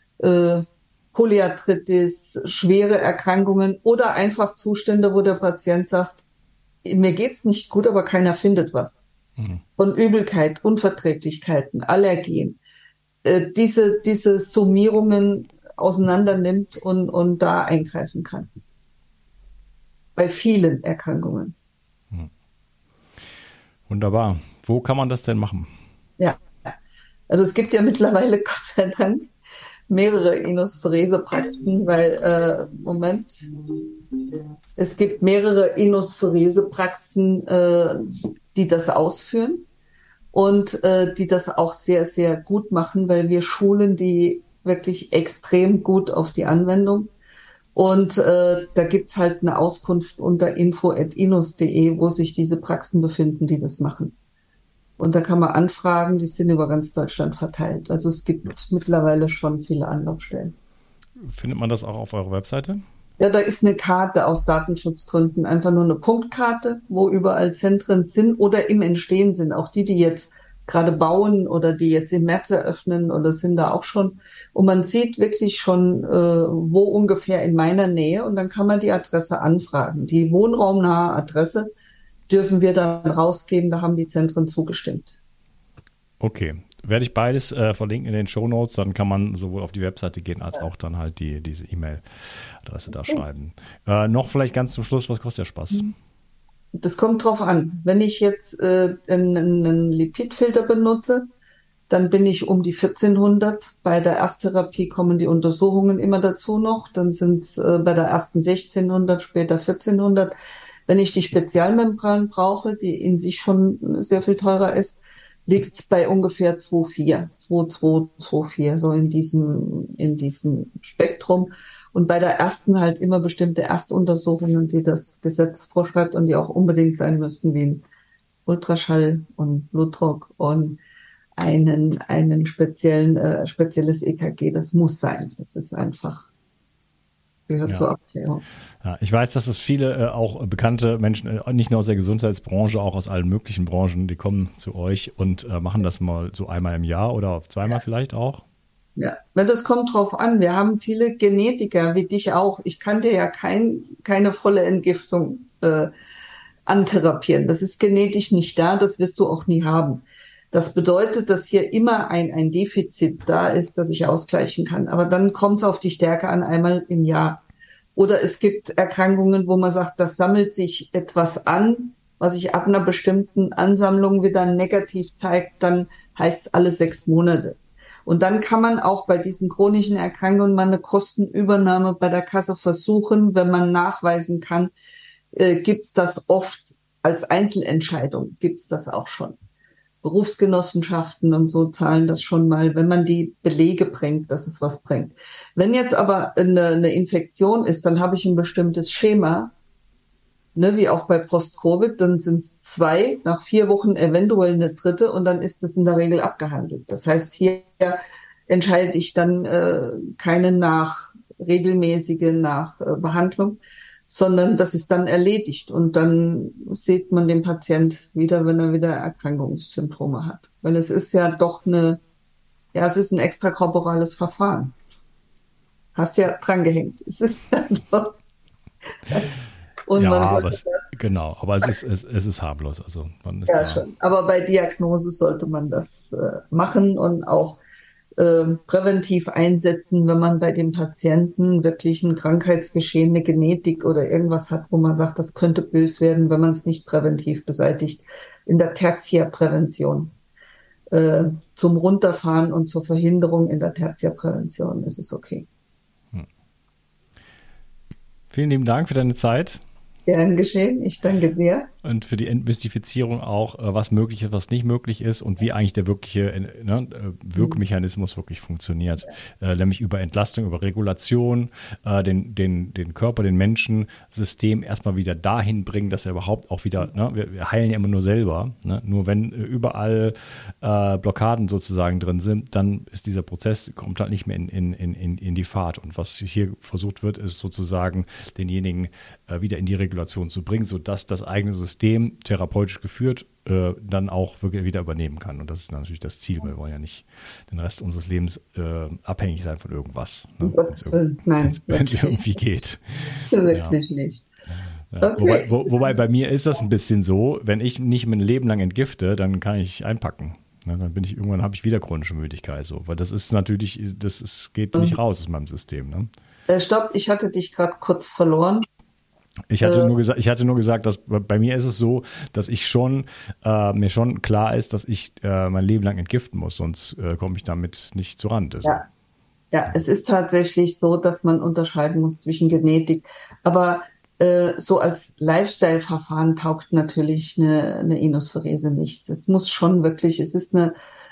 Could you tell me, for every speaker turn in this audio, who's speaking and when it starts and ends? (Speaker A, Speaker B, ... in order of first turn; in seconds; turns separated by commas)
Speaker A: 0.2-6.2, Speaker A: 6.8-9.1, Speaker A: 9.8-12.6, Speaker A: 13.2-18.5, Speaker A: 20.1-21.6, Speaker B: 23.9-25.7, Speaker A: 26.2-26.7, Speaker A: 27.3-29.3, Speaker A: 29.9-33.4, Speaker A: 34.8-39.6, Speaker A: 40.3-47.1, Speaker A: 47.7-54.1, Speaker A: 55.0-60.5, Speaker B: 61.2-62.8, Speaker A: 63.2-81.7, Speaker A: 82.3-85.2, Speaker B: 86.2-95.9, Speaker A: 96.7-101.3, Speaker A: 101.9-110.3, Speaker A: 110.9-127.8, Speaker A: 128.4-130.8, Speaker A: 131.4-136.3, Speaker A: 137.5-138.4, Speaker B: 138.8-148.4, Speaker A: 149.0-155.9, Speaker A: 156.7-167.4, Speaker A: 167.9-184.7, Speaker A: 185.3-189.4, Speaker A: 190.0-199.5, Speaker A: 200.5-222.0, Speaker A: 222.7-224.7, Speaker A: 225.9-228.2, Speaker A: 229.1-229.3, Speaker A: 229.9-230.8, Speaker B: 229.9-233.8, Speaker A: 233.5-237.6, Speaker A: 238.2-250.1, Speaker A: 250.9-255.5, Speaker B: 258.3-259.6, Speaker A: 260.1-261.7, Speaker B: 261.8-303.8, Speaker A: 300.4-302.2, Speaker A: 303.3-304.2, Speaker B: 304.9-316.1, Speaker A: 305.0-305.9, Speaker A: 316.5-318.6, Speaker B: 319.5-328.8, Speaker A: 319.6-319.9, Speaker A: 329.5-340.7